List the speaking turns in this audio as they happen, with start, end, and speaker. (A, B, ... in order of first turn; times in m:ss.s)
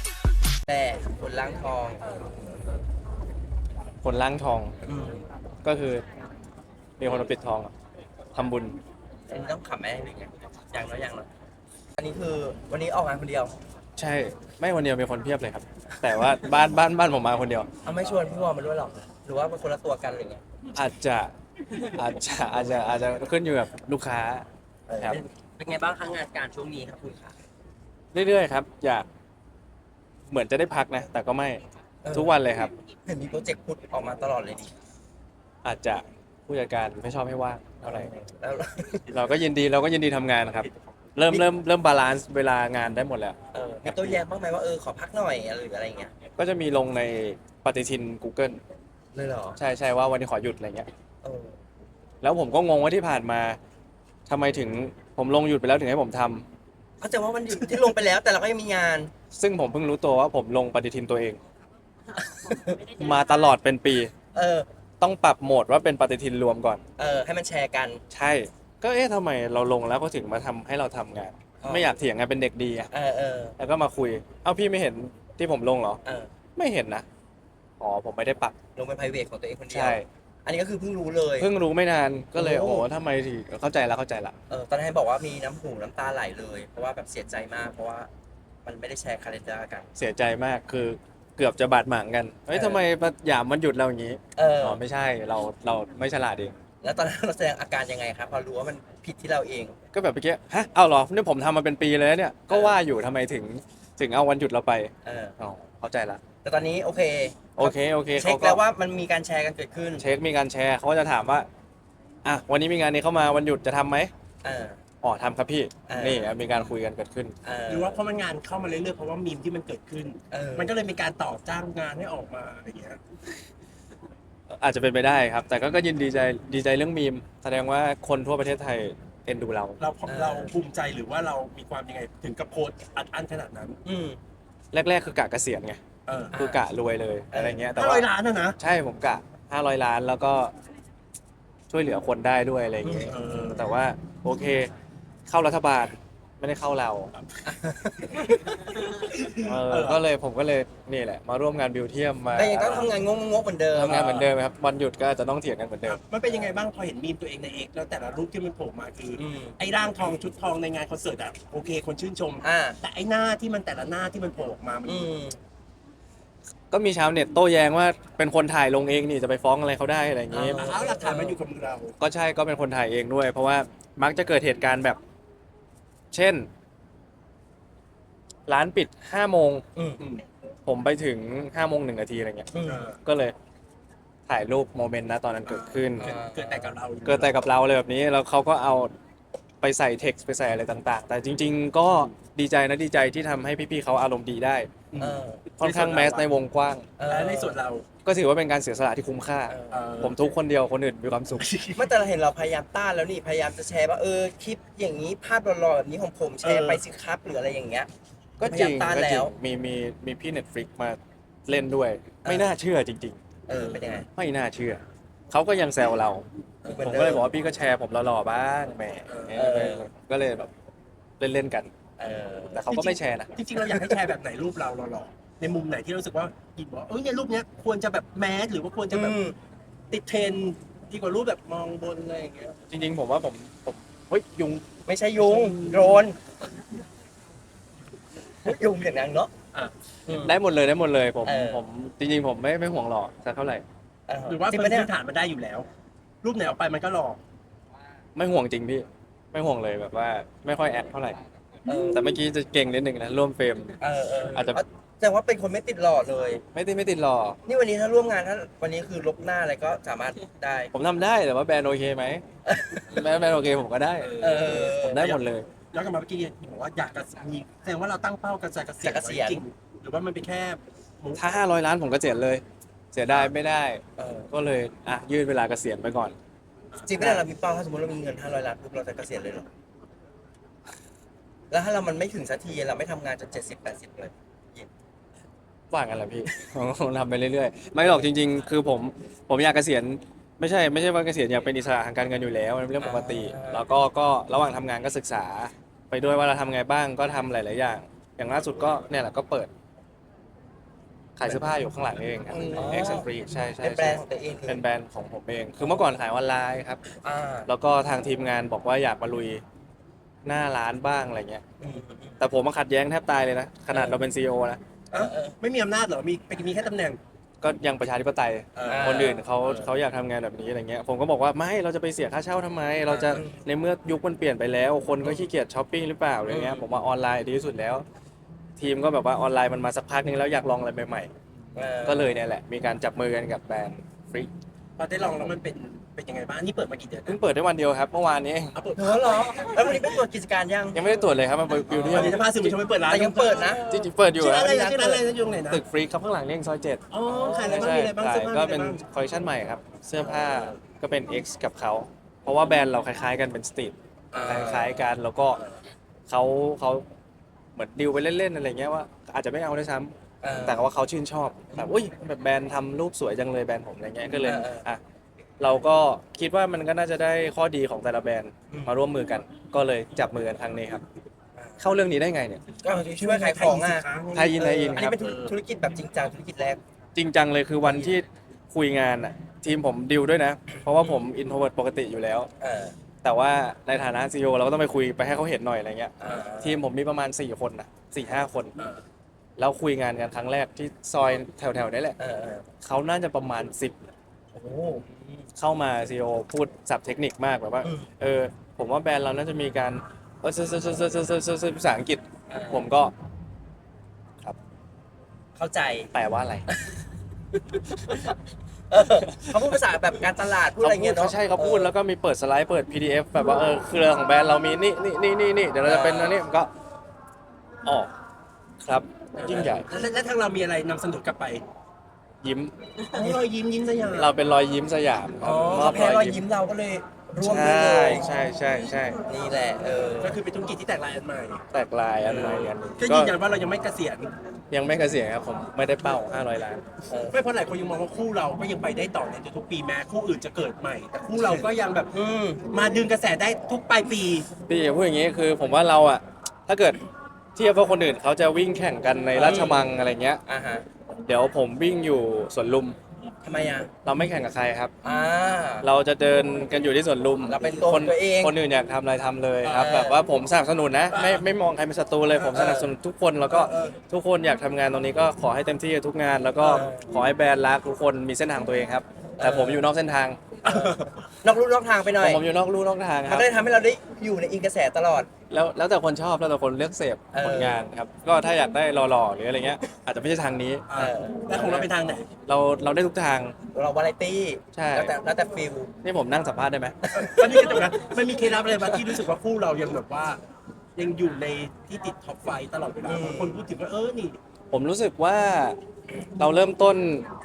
0:00.7-0:02.3 A
0:04.0-0:04.7 B
0:04.8-0:05.2 A
0:05.6-0:06.0 B
0:07.0-0:07.7 B
0:08.3-0:08.8 B
0:09.3-0:11.3 A
0:12.0-0:13.6 A
0:14.0-0:17.7 B
0:17.8-0:20.4 A
0:20.7-0:21.3 B
0:21.9-0:24.4 B
0:24.9-0:27.4 A
0:25.0-0:25.2 B
0:28.1-0:29.0 B
0:30.3-0:31.6 B
0:32.0-0:32.4 A
0:32.1-0:32.7 B
0:33.0-0:34.8 A
0:35.6-0:38.1 B
0:37.8-0:39.2 A
0:39.1-0:44.2 B
0:43.5-0:46.1 A
0:46.4-0:48.6 B
0:49.1-0:49.6 A
0:49.6-0:50.9 B
0:51.2-0:51.6 A
0:52.2-0:53.6 B
0:54.3-0:56.4 B
0:57.0-0:59.1 A
0:59.3-1:01.4 B
1:02.2-1:03.0 A
1:03.0-1:04.1 B
1:04.3-1:04.6 A
1:05.0-1:06.8 B
1:07.0-1:08.0 A
1:08.1-1:12.9 B
1:11.6-1:11.9 A
1:12.9-1:13.6 A
1:13.6-1:16.0 B
1:16.0-1:16.3 A
1:16.6-1:17.0 B
1:17.8-1:18.5 B
1:18.7-1:21.5 A
1:19.7-1:20.0 B
1:21.4-1:24.3 B
1:22.3-1:22.9 A
1:24.5-1:28.1 A
1:28.6-1:29.9 A
1:30.0-1:36.6 B
1:32.5-1:32.8 A
1:34.3-1:34.8 A
1:36.8-1:39.8 A
1:39.9-1:46.2 B
1:42.5-1:42.8 A
1:45.0-1:45.4 A
1:46.4-1:50.1 A
1:47.6-1:48.6 B
1:50.0-1:51.5 B
1:52.2-1:54.1 B
1:54.4-1:54.8 A
1:55.0-1:57.4 B
1:55.9-1:56.7 A
1:57.4-1:58.0 A
1:57.7-2:03.0 C
2:00.3-2:00.7 A
2:04.5-2:09.8 B
2:09.8-2:13.8 C
2:10.0-2:10.5 A
2:13.8-2:14.2 A
2:14.7-2:15.8 B
2:16.1-2:16.3 C
2:16.3-2:16.6 A
2:16.3-2:20.5 B
2:17.3-2:17.7 A
2:17.7-2:18.6 C
2:21.7-2:24.7 B
2:22.8-2:23.2 A
2:22.9-2:23.7 C
2:25.3-2:27.1 B
2:27.4-2:29.0 A
2:28.0-2:30.0 C
2:29.4-2:32.9 B
2:32.3-2:34.1 A
2:33.7-2:36.0 B
2:33.8-2:34.3 C
2:35.8-2:45.1 C
2:39.2-2:39.6 A
2:42.4-2:42.8 A
2:44.8-2:45.4 A
2:46.7-2:50.6 B
2:50.3-2:51.4 A
2:50.5-2:51.9 C
2:52.0-2:55.0 B
2:56.1-2:56.5 B
2:58.5-2:59.6 B
2:59.7-3:00.0 A
3:00.0-3:00.2 C
3:00.6-3:03.3 B
3:02.5-3:02.9 A
3:02.6-3:03.0 C
3:04.3-3:06.1 B
3:05.5-3:07.4 C
3:06.0-3:06.8 A
3:07.0-3:08.9 B
3:09.6-3:14.7 B
3:14.9-3:16.3 C
3:15.0-3:15.4 A
3:15.6-3:16.9 B
3:17.0-3:17.6 A
3:17.0-3:17.9 C
3:18.0-3:21.5 B
3:19.5-3:19.8 A
3:19.7-3:20.2 C
3:21.4-3:21.9 C
3:21.7-3:27.9 A
3:26.4-3:26.8 C
3:28.4-3:33.2 B
3:28.4-3:29.3 A
3:32.2-3:32.5 A
3:33.5-3:34.1 A
3:33.5-3:34.0 C
3:34.1-3:40.5 B
3:36.6-3:37.3 A
3:36.7-3:37.1 C
3:39.1-3:39.4 C
3:39.3-3:39.9 A
3:41.2-3:41.7 B
3:42.0-3:42.7 A
3:42.5-3:43.3 B
3:42.7-3:49.2 C
3:48.9-3:49.4 A
3:49.9-3:52.6 C
3:52.7-3:54.6 B
3:54.8-3:56.2 A
3:55.2-3:55.9 C
3:58.4-3:59.3 A
4:00.1-4:00.4 A
4:00.1-4:03.6 B
4:01.2-4:01.6 A
4:04.1-4:04.9 A
4:04.3-4:05.7 C
4:06.2-4:07.2 C
4:08.1-4:11.2 B
4:11.6-4:12.1 A
4:11.9-4:13.8 B
4:13.8-4:16.4 A
4:14.3-4:14.6 B
4:16.5-4:17.4 B
4:17.4-4:20.7 A
4:20.7-4:22.2 B
4:22.4-4:23.0 A
4:22.9-4:25.5 B
4:24.0-4:31.3 C
4:24.2-4:25.2 A
4:28.8-4:29.4 A
4:31.1-4:36.1 B
4:34.0-4:34.3 A
4:36.8-4:39.5 A
4:37.0-4:37.3 B
4:41.5-4:44.7 A
4:45.7-4:59.5 B
4:47.8-4:48.1 A
4:52.8-4:53.6 A
5:01.2-5:06.8 B
5:02.3-5:03.0 C
5:02.5-5:04.6 A
5:05.6-5:05.9 A
5:06.9-5:07.5 A
5:07.5-5:09.4 B
5:10.2-5:11.4 B
5:11.6-5:12.2 A
5:12.2-5:14.6 B
5:13.7-5:14.0 A
5:14.9-5:15.4 A
5:14.9-5:17.0 C
5:17.4-5:27.8 B
5:18.5-5:19.7 C
5:18.6-5:19.2 A
5:22.9-5:23.4 A
5:26.3-5:26.6 A
5:28.6-5:31.1 B
5:31.5-5:32.2 A
5:31.8-5:34.3 B
5:34.8-5:37.2 C
5:37.0-5:38.6 B
5:38.5-5:40.0 C
5:38.8-5:40.8 A
5:40.7-5:42.2 B
5:41.7-5:43.6 A
5:41.8-5:45.6 C
5:43.7-5:44.5 B
5:44.4-5:45.0 A
5:45.5-5:46.8 B
5:46.9-5:48.8 C
5:47.0-5:47.8 A
5:47.4-5:55.4 B
5:50.0-5:50.6 C
5:54.1-5:54.8 A
5:54.1-5:54.6 C
5:56.1-5:56.8 B
5:57.6-6:04.8 B
6:00.2-6:00.7 A
6:04.2-6:04.6 A
6:05.4-6:10.8 B
6:08.5-6:08.8 A
6:11.4-6:11.6 A
6:11.6-6:12.4 B
6:12.6-6:16.6 A
6:12.6-6:15.3 C
6:14.1-6:15.0 B
6:16.9-6:22.3 B
6:17.6-6:17.9 A
6:22.4-6:22.7 A
6:23.0-6:28.6 B
6:26.0-6:26.6 A
6:29.4-6:32.0 B
6:32.0-6:32.4 A
6:32.6-6:33.7 B
6:34.3-6:35.0 A
6:35.4-6:42.9 B
6:37.6-6:37.9 A
6:42.3-6:42.7 A
6:45.3-6:45.9 A
6:45.9-6:46.5 B
6:46.5-6:46.7 A
6:47.7-6:48.2 A
6:48.7-6:51.7 A
6:50.6-6:56.5 B
6:55.6-6:56.2 A
6:57.6-6:57.9 B
6:58.6-6:59.7 B
6:59.2-6:59.6 A
6:59.2-7:01.4 C
7:02.2-7:02.6 B
7:02.8-7:04.1 C
7:02.9-7:03.2 A
7:03.9-7:06.2 B
7:05.2-7:08.1 A
7:05.2-7:06.0 C
7:07.2-7:09.0 B
7:09.0-7:10.2 A
7:09.8-7:11.4 C
7:11.5-7:13.2 B
7:12.0-7:14.1 C
7:12.3-7:12.5 A
7:14.5-7:16.6 B
7:16.9-7:17.2 A
7:17.1-7:21.9 C
7:21.9-7:22.4 A
7:22.4-7:24.3 C
7:24.5-7:26.8 B
7:27.4-7:30.2 B
7:29.2-7:29.7 A
7:29.2-7:29.6 C
7:30.2-7:30.7 A
7:31.0-7:32.8 B
7:33.2-7:33.7 A
7:33.8-7:34.7 B
7:34.8-7:35.7 A
7:35.6-7:50.2 B
7:37.2-7:38.4 A
7:39.5-7:40.0 A
7:40.9-7:41.2 C
7:42.3-7:42.7 A
7:43.3-7:43.8 C
7:46.4-7:46.8 A
7:49.2-7:49.7 A
7:50.4-7:51.1 C
7:50.5-7:52.2 A
7:52.0-7:53.3 B
7:53.0-7:55.1 A
7:55.3-8:00.7 B
7:57.1-7:57.7 A
8:00.7-8:02.1 C
8:00.8-8:01.4 A
8:01.3-8:03.4 B
8:03.5-8:05.7 A
8:04.5-8:04.9 B
8:05.8-8:06.8 B
8:06.8-8:07.7 A
8:07.0-8:10.2 C
8:10.8-8:14.2 C
8:12.8-8:13.4 A
8:14.5-8:15.6 B
8:16.2-8:17.1 B